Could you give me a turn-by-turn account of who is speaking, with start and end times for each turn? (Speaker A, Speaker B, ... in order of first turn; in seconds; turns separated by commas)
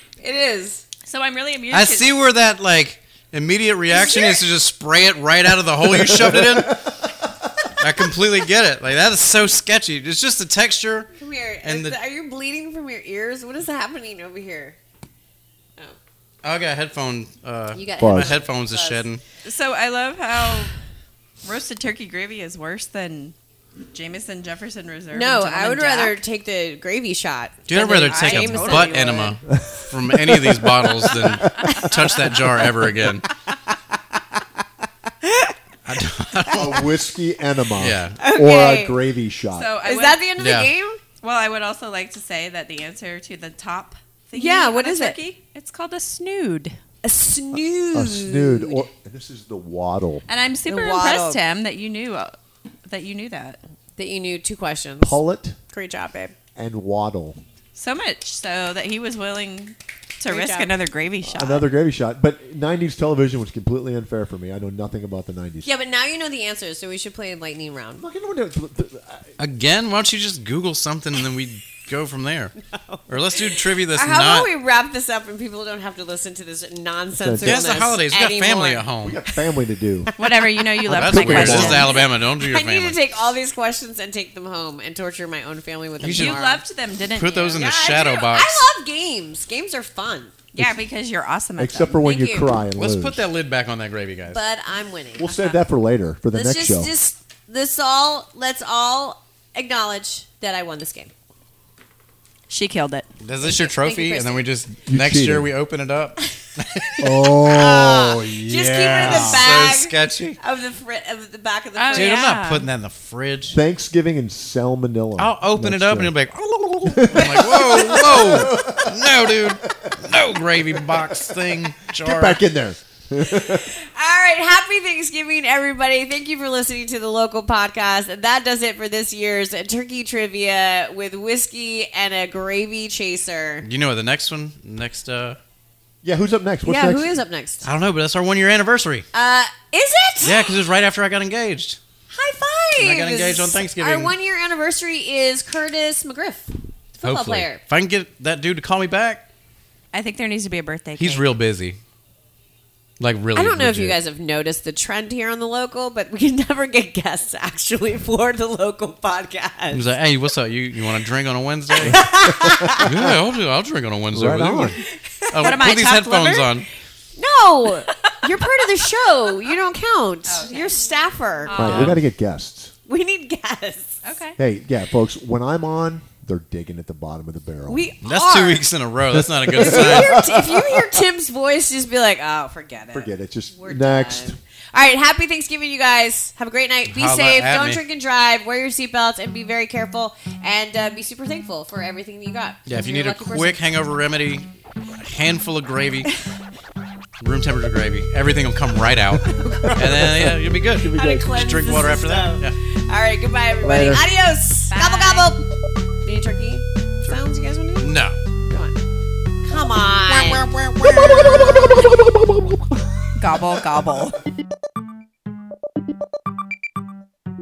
Speaker A: 0.2-0.8, Speaker B: 1.1-2.1, Speaker C: 1.7-6.9, Speaker A: 3.9-4.4, Speaker D: 5.9-6.9, Speaker C: 7.8-12.0, Speaker A: 11.2-14.8, Speaker C: 16.4-19.2, Speaker A: 17.7-19.1, Speaker D: 18.0-18.3, Speaker B: 19.4-20.7, Speaker B: 21.4-23.4, Speaker B: 23.9-26.2, Speaker A: 25.1-29.1, Speaker C: 27.7-33.3, Speaker B: 28.0-29.4, Speaker D: 29.6-31.9, Speaker B: 31.6-31.9, Speaker A: 35.2-35.5, Speaker C: 35.9-36.9, Speaker D: 36.5-39.7, Speaker C: 37.8-38.2, Speaker A: 38.2-39.0, Speaker B: 39.5-40.2, Speaker A: 39.8-41.0, Speaker C: 40.4-40.7, Speaker B: 41.2-46.8, Speaker A: 44.4-45.2, Speaker A: 47.0-48.9, Speaker D: 47.5-50.2, Speaker B: 50.3-52.4, Speaker A: 50.7-51.4, Speaker B: 52.9-53.6, Speaker A: 54.0-56.4, Speaker D: 55.0-55.6, Speaker D: 56.6-57.4, Speaker B: 57.8-61.7, Speaker A: 60.2-60.8, Speaker D: 61.2-65.7, Speaker A: 65.7-68.0, Speaker D: 68.0-69.3, Speaker C: 69.4-72.6, Speaker A: 72.7-78.9, Speaker C: 73.1-74.5, Speaker D: 77.2-77.8, Speaker C: 77.4-79.2, Speaker D: 79.0-80.1, Speaker B: 80.2-81.9, Speaker A: 80.2-80.7, Speaker C: 80.8-83.0, Speaker D: 80.9-81.9, Speaker A: 81.3-86.6, Speaker C: 86.0-86.4, Speaker B: 86.1-87.7, Speaker C: 87.1-88.7, Speaker A: 87.5-90.3, Speaker B: 90.5-92.0, Speaker D: 91.6-93.2, Speaker A: 92.0-92.5, Speaker C: 92.8-94.4, Speaker A: 94.3-95.6, Speaker D: 95.2-96.9, Speaker A: 96.3-101.1, Speaker B: 102.5-103.1, Speaker C: 103.2-107.0, Speaker A: 103.4-104.5, Speaker D: 104.9-105.5, Speaker A: 107.0-112.4, Speaker D: 107.0-109.5, Speaker C: 108.7-110.4, Speaker B: 111.8-112.7, Speaker C: 111.9-113.6, Speaker D: 113.5-116.1, Speaker C: 115.2-122.4, Speaker D: 116.8-119.9, Speaker D: 122.0-123.7, Speaker A: 123.3-133.7, Speaker C: 133.6-135.4, Speaker D: 136.0-137.2, Speaker A: 136.7-137.7, Speaker C: 137.6-139.1, Speaker A: 139.1-140.5, Speaker C: 140.2-141.8, Speaker A: 142.1-147.6, Speaker C: 142.8-144.1, Speaker C: 147.0-149.3, Speaker B: 149.9-151.3, Speaker C: 151.0-151.8, Speaker C: 153.0-154.0, Speaker A: 153.3-159.8, Speaker C: 159.7-162.1, Speaker D: 161.8-163.2, Speaker A: 161.8-162.9, Speaker C: 162.7-166.7, Speaker D: 164.1-164.8, Speaker A: 165.2-165.6, Speaker B: 165.4-166.6, Speaker A: 167.2-171.7, Speaker B: 170.3-170.9, Speaker B: 171.5-172.0, Speaker D: 171.5-172.7, Speaker C: 171.6-172.0, Speaker A: 172.9-174.0, Speaker B: 174.0-174.4, Speaker D: 174.4-177.9, Speaker A: 177.7-178.6, Speaker C: 178.0-180.2, Speaker D: 179.1-181.0, Speaker A: 179.6-193.6, Speaker D: 182.9-184.4, Speaker C: 186.9-187.8, Speaker C: 192.7-196.1, Speaker C: 197.2-202.6, Speaker D: 199.3-201.4, Speaker A: 200.9-205.4, Speaker D: 203.6-204.0, Speaker B: 204.7-205.3, Speaker A: 206.0-208.8, Speaker C: 207.8-208.2, Speaker A: 209.4-210.5, Speaker C: 210.5-211.3, Speaker D: 210.8-213.6, Speaker B: 213.2-214.2